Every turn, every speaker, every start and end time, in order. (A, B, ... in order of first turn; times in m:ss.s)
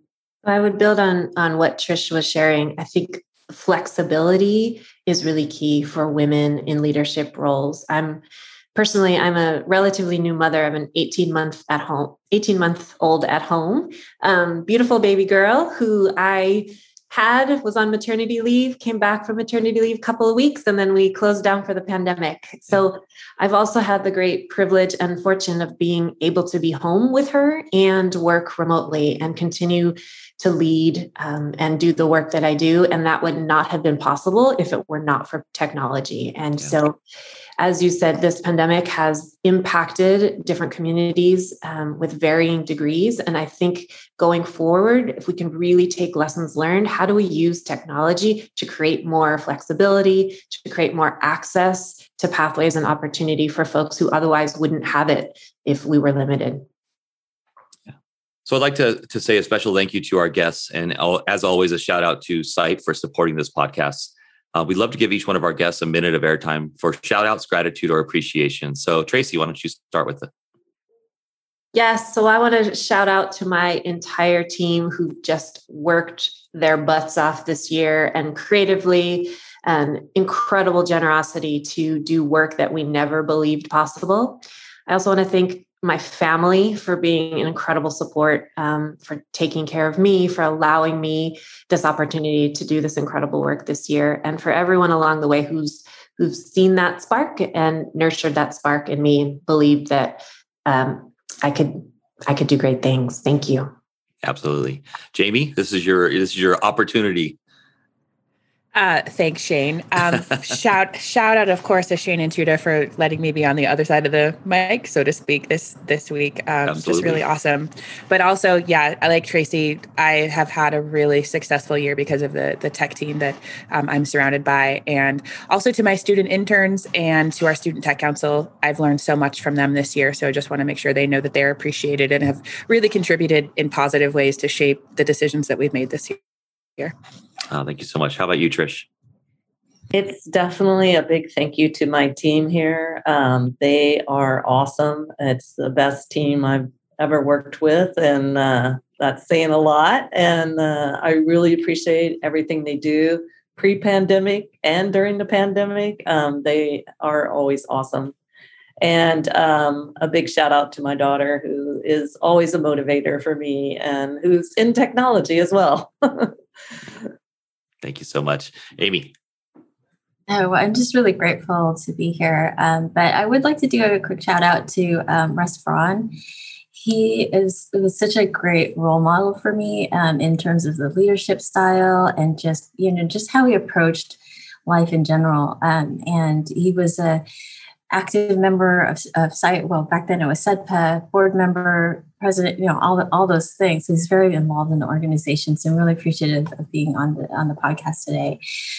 0:00.4-0:08.2 A
0:08.8-0:37.0 A
0:37.6-0:56.6 A
0:58.5-1:10.3 B
1:11.7-1:43.7 A
1:44.2-1:47.4 B
1:48.7-2:16.2 C
1:56.7-1:57.2 B
2:17.5-2:18.9 B
2:19.9-2:38.2 D
2:38.8-2:46.3 D
2:47.8-2:49.1 B
2:50.3-2:56.1 E
2:56.7-3:07.2 E
3:07.9-3:18.4 E